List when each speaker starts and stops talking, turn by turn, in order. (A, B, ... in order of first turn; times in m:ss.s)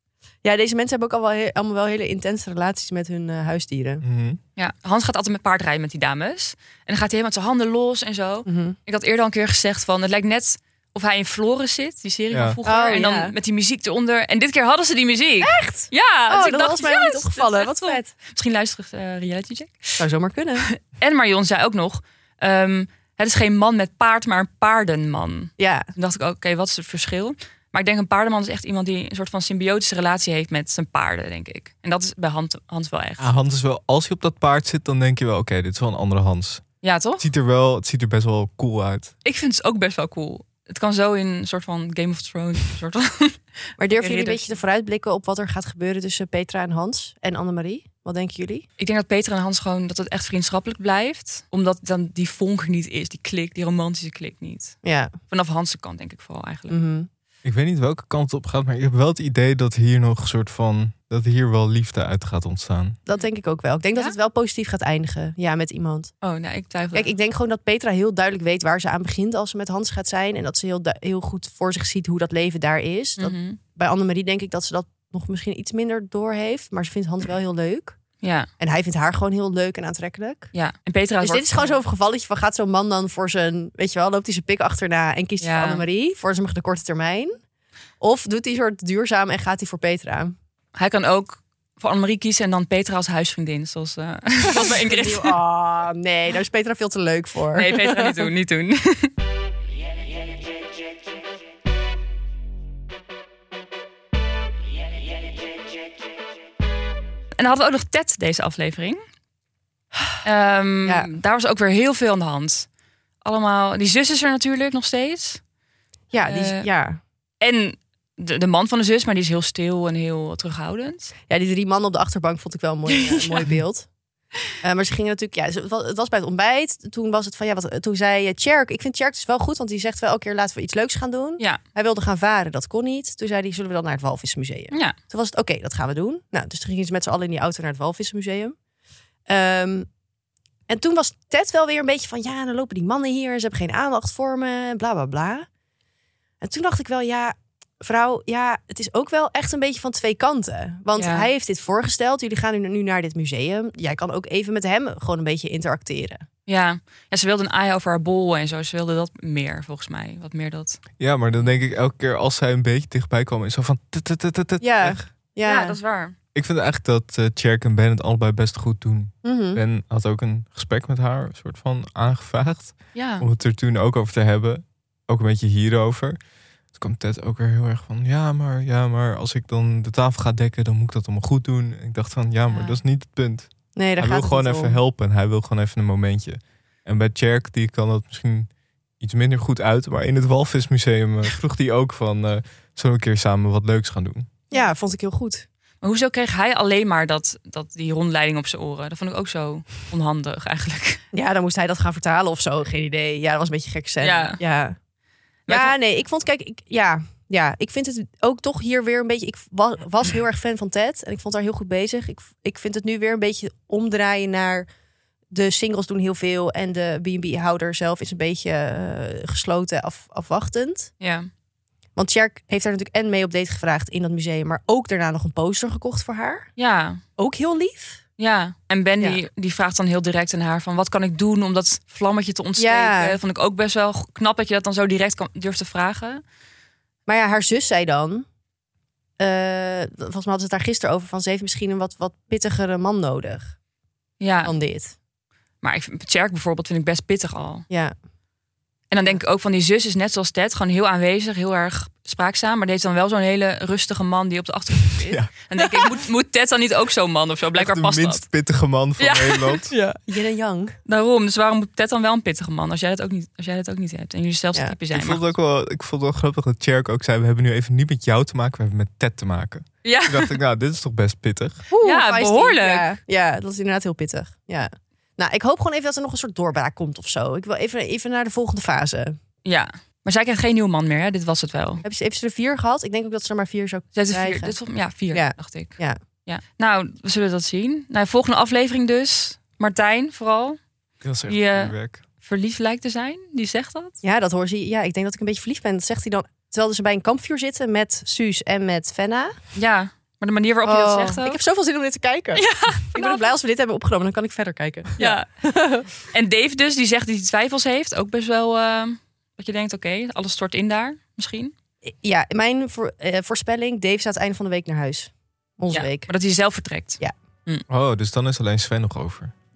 0:00.4-0:04.0 A
0:04.0-0:04.4 B
0:04.6-0:20.0 C
0:08.4-0:08.8 A
0:12.3-0:12.6 B
0:12.6-0:13.4 A
0:15.4-0:18.1 A
0:20.0-0:20.7 A
0:20.6-0:33.3 C
0:25.6-0:25.9 A
0:33.2-0:36.6 B
0:36.8-0:37.2 C
0:37.2-0:39.1 B
0:39.2-0:43.4 C
0:43.8-0:48.6 A
0:43.9-0:44.6 C
0:48.8-0:54.8 C
0:54.8-0:55.2 A
0:55.3-0:56.8 C
0:56.7-0:57.1 A
0:57.4-1:03.0 B
1:03.0-1:06.1 A
1:06.2-1:07.1 C
1:06.9-1:18.0 A
1:13.2-1:13.6 C
1:18.2-1:18.5 C
1:18.6-1:20.5 A
1:20.5-1:21.8 C
1:21.2-1:27.4 A
1:25.4-1:25.8 C
1:28.0-1:30.3 A
1:30.7-1:35.3 C
1:34.5-1:38.3 A
1:37.5-1:39.1 C
1:47.3-1:49.0 C
1:50.2-1:52.7 C
1:53.2-1:55.4 C
1:56.1-1:57.0 A
1:56.2-1:56.7 C
1:57.4-2:01.1 C
2:01.3-2:03.9 A
2:02.9-2:03.5 C
2:04.6-2:18.5 A
2:14.7-2:15.0 C
2:19.3-2:19.9 A
2:20.7-2:25.4 A
2:26.4-2:36.2 A
2:30.9-2:31.3 C
2:36.5-2:40.8 C
2:41.0-2:45.0 B
2:44.6-2:45.8 A
2:45.4-2:46.2 C
2:46.3-2:56.2 B
2:49.2-2:49.6 A
2:52.9-2:53.3 C
2:56.7-3:14.3 B
3:02.5-3:02.8 C
3:03.7-3:04.8 A
3:14.5-3:15.4 A
3:15.8-3:21.0 C
3:21.1-3:24.8 A
3:24.0-3:24.4 C
3:25.5-3:25.7 C
3:25.5-3:34.7 A
3:35.3-3:40.9 A
3:41.0-3:41.3 C
3:42.0-3:46.5 A
3:46.6-3:47.0 C
3:47.2-3:48.0 A
3:48.2-3:56.2 C
3:52.6-3:53.2 A
3:57.1-3:58.2 A
3:59.2-4:03.5 A
4:04.2-4:04.5 C
4:04.4-4:04.9 A
4:05.6-4:07.6 C
4:07.7-4:07.9 A
4:08.9-4:18.3 C
4:15.0-4:15.3 B
4:17.5-4:19.7 B
4:19.0-4:19.6 C
4:19.7-4:20.8 A
4:20.8-4:25.2 C
4:24.9-4:31.6 B
4:29.8-4:30.3 C
4:31.7-4:39.2 A
4:31.8-4:32.9 C
4:39.4-4:41.8 C
4:41.8-4:44.6 A
4:43.9-4:45.7 C
4:45.1-4:46.0 A
4:46.2-4:50.6 C
4:51.0-4:52.0 B
4:51.2-4:54.0 C
4:54.0-4:59.3 A
4:59.5-5:01.4 C
5:00.6-5:05.8 A
5:02.3-5:03.2 C
5:05.0-5:05.2 C
5:06.0-5:11.5 C
5:11.9-5:16.1 A
5:15.7-5:17.6 C
5:17.7-5:19.3 B